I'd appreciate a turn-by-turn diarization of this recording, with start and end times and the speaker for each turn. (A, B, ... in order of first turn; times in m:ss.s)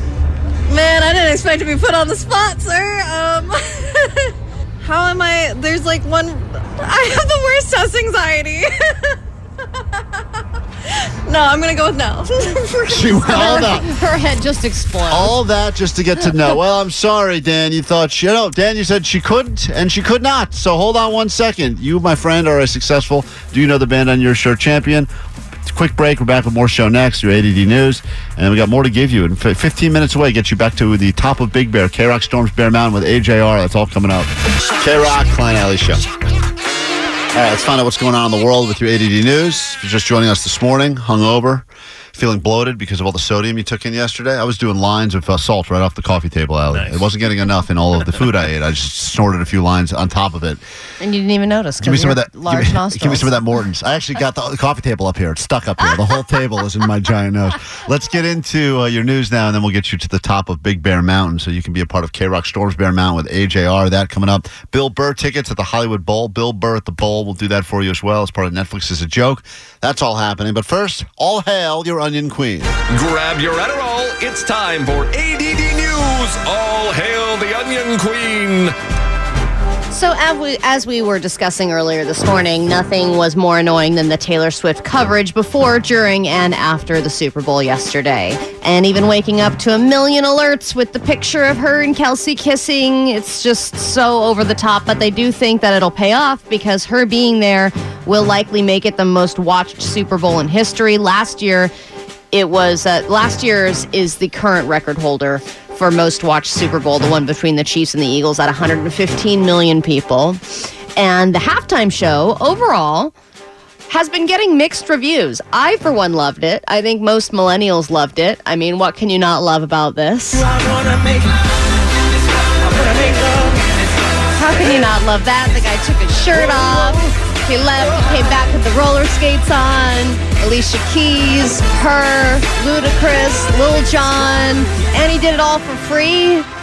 0:00.7-0:09.1 A
0:09.9-0:10.2 A
0:11.3-0:13.5 A
0:12.9-0:13.9 B
0:13.3-0:15.3 C
0:15.1-0:25.1 B
0:25.7-0:36.0 B
0:37.3-0:50.6 B
0:51.0-0:53.4 C
0:51.8-1:12.7 B
1:12.9-1:18.7 D
1:19.9-1:41.7 C
1:42.3-1:50.4 C
1:51.0-1:53.1 C
1:53.9-2:00.5 C
2:04.3-2:16.5 C